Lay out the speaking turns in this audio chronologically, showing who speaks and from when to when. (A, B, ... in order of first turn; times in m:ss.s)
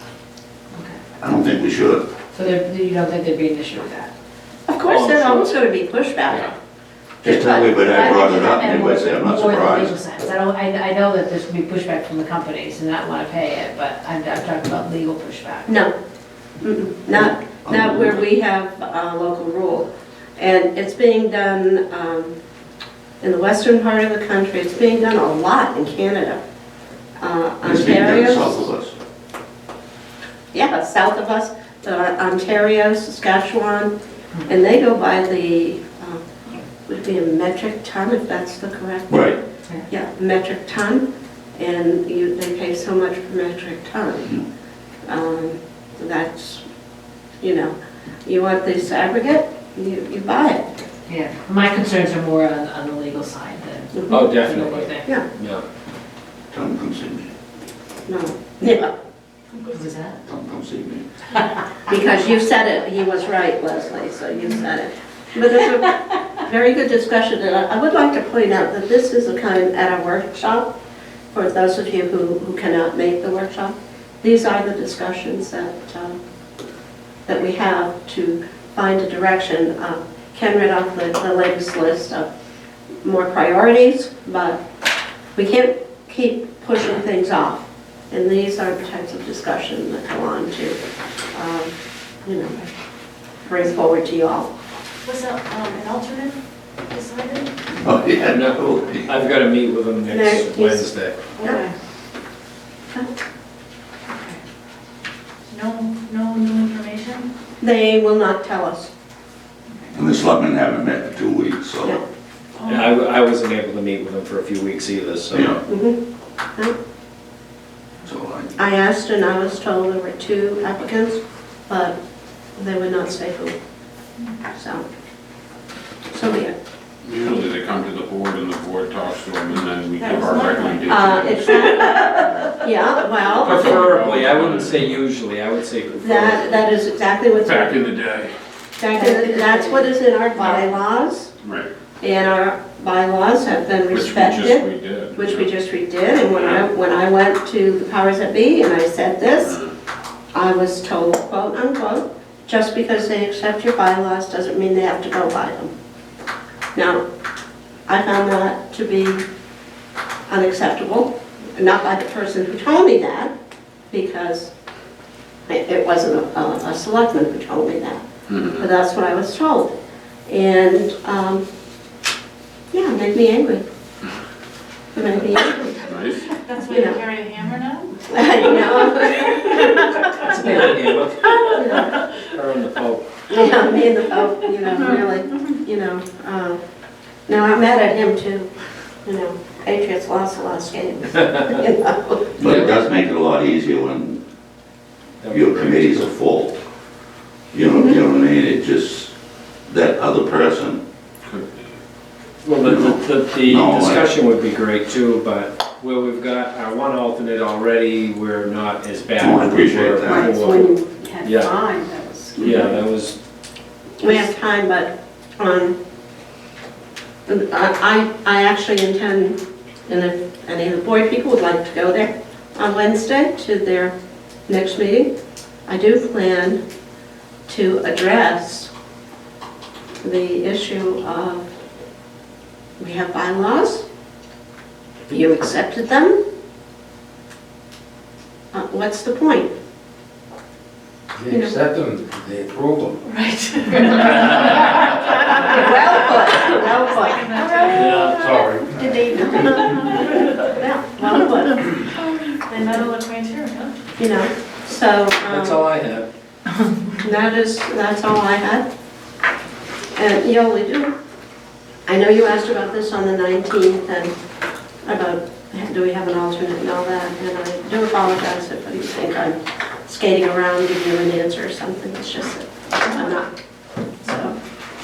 0:00.7-0:01.0 A
0:01.2-0:02.0 B
0:02.3-0:04.1 A
0:04.6-0:06.5 C
0:04.8-0:05.6 D
0:07.2-0:09.9 B
0:07.2-0:08.3 C
0:07.9-0:15.7 A
0:15.7-0:15.9 C
0:16.6-0:22.4 C
0:17.6-0:18.2 B
0:23.2-0:26.4 C
0:27.2-0:28.6 C
0:27.6-0:28.9 B
0:30.5-0:33.9 C
0:34.4-0:36.2 C
0:36.8-0:41.0 C
0:39.1-0:39.4 B
0:41.6-0:44.3 C
0:45.0-0:46.6 C
0:47.4-0:47.7 C
0:48.2-0:50.7 C
0:51.1-0:55.1 A
0:54.1-0:55.6 D
0:56.5-0:57.3 B
0:58.1-0:58.9 C
0:59.6-1:00.1 A
1:00.2-1:01.0 B
1:01.9-1:10.7 C
1:11.3-1:16.2 C
1:17.2-1:22.3 C
1:23.0-1:24.6 C
1:25.3-1:30.8 C
1:31.3-1:31.7 C
1:32.2-1:32.6 C
1:33.4-1:34.5 C
1:35.0-1:37.5 E
1:37.8-1:39.1 B
1:38.3-1:41.2 D
1:40.1-1:40.8 C
1:41.4-1:41.7 E
1:45.5-1:47.3 E
1:47.6-1:48.9 C
1:49.9-1:52.0 B
1:52.6-1:52.9 E
1:52.6-1:55.6 D
1:55.6-1:56.0 C
1:58.0-1:58.5 B
1:58.6-2:02.0 C
2:02.6-2:03.6 C
2:04.5-2:04.8 C
2:06.1-2:06.5 C
2:07.0-2:12.6 F
2:10.0-2:12.0 E
2:10.9-2:13.9 C
2:13.2-2:15.1 F
2:13.4-2:16.8 D
2:16.0-2:17.8 C
2:17.3-2:18.3 F
2:18.8-2:21.3 C
2:20.4-2:20.7 F
2:21.4-2:21.7 F
2:22.0-2:29.6 C
2:23.9-2:25.6 F
2:26.1-2:26.7 F
2:29.4-2:29.7 F
2:30.3-2:35.7 C
2:36.7-2:37.0 C
2:37.9-2:39.2 C
2:40.3-2:43.3 C
2:43.9-2:44.5 C
2:45.5-2:48.0 C
2:48.3-2:48.6 F
2:48.5-2:51.4 C
2:52.7-2:53.6 C
2:54.9-2:55.8 C
2:55.8-2:56.3 F
2:56.3-3:00.6 E
2:56.6-2:57.0 C
2:58.0-3:00.6 C
3:00.1-3:03.4 D
3:01.5-3:02.1 C
3:03.3-3:06.6 C
3:07.3-3:08.5 C
3:09.0-3:12.3 C
3:12.4-3:14.2 B
3:12.4-3:12.8 D
3:15.2-3:16.1 D
3:15.3-3:16.6 B
3:17.5-3:19.1 B
3:17.7-3:18.0 C
3:19.7-3:20.8 B
3:21.2-3:21.7 F
3:22.4-3:30.7 D
3:22.6-3:24.1 B
3:29.2-3:30.3 B
3:30.2-3:30.7 C
3:31.2-3:31.6 D
3:32.4-3:33.2 D
3:34.0-3:35.7 C
3:37.3-3:43.9 C
3:44.5-3:45.1 C
3:45.7-3:46.6 C
3:47.5-3:48.7 C
3:50.0-3:51.5 C
3:52.8-3:53.8 C
3:55.1-3:56.2 C
3:58.5-3:59.5 C
4:01.2-4:03.0 G
4:01.3-4:01.6 C
4:03.0-4:10.2 E
4:04.9-4:07.8 C
4:07.7-4:08.2 D
4:08.2-4:08.9 G
4:08.8-4:11.8 C
4:11.9-4:13.7 E
4:14.0-4:15.6 C
4:15.2-4:16.0 D
4:17.0-4:18.6 C
4:20.0-4:20.9 C
4:21.8-4:24.1 C
4:24.8-4:33.3 C
4:32.8-4:33.2 E
4:34.0-4:34.3 C